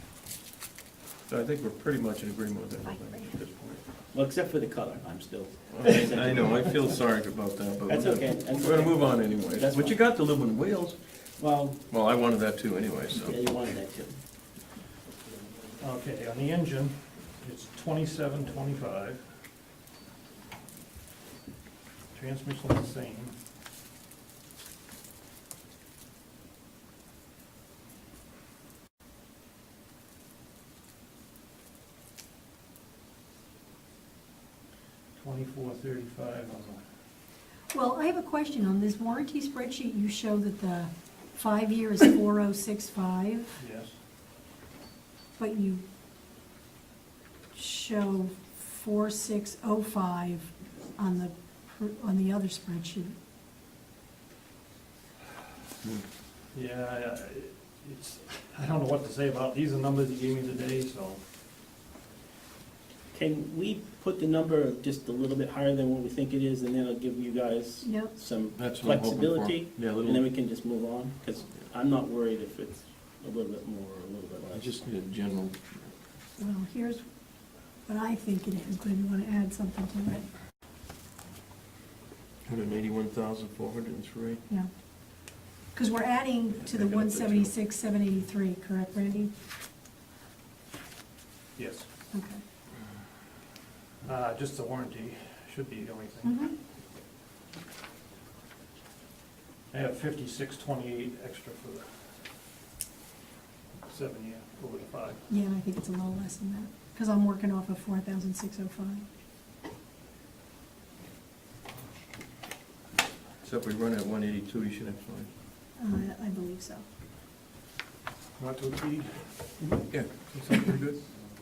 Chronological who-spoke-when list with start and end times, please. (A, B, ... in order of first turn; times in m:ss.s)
0:01.3-0:03.8 A
0:04.1-0:06.7 B
0:05.7-0:11.0 A
0:07.9-0:10.0 B
0:11.4-0:11.8 B
0:11.9-0:13.4 A
0:13.1-0:14.1 B
0:15.8-0:19.2 C
0:22.1-0:23.3 C
0:35.2-0:36.8 C
0:37.7-0:43.6 D
0:43.6-0:44.0 C
0:45.4-0:45.8 D
0:47.5-0:53.1 D
0:56.5-1:01.2 C
1:03.1-1:14.8 B
1:07.8-1:08.1 D
1:08.5-1:10.2 A
1:14.5-1:15.8 A
1:16.4-1:17.0 D
1:17.8-1:20.2 D
1:22.4-1:24.4 A
1:25.7-1:29.3 D
1:26.6-1:27.5 A
1:31.6-1:31.9 C
1:32.1-1:32.4 D
1:34.0-1:36.4 C
1:36.2-1:36.5 D
1:39.7-1:42.0 C
1:43.8-1:45.2 C
1:45.3-1:49.0 D
1:53.4-1:55.3 A
1:55.8-1:56.8 D
1:58.4-2:01.0 C
1:59.9-2:00.9 A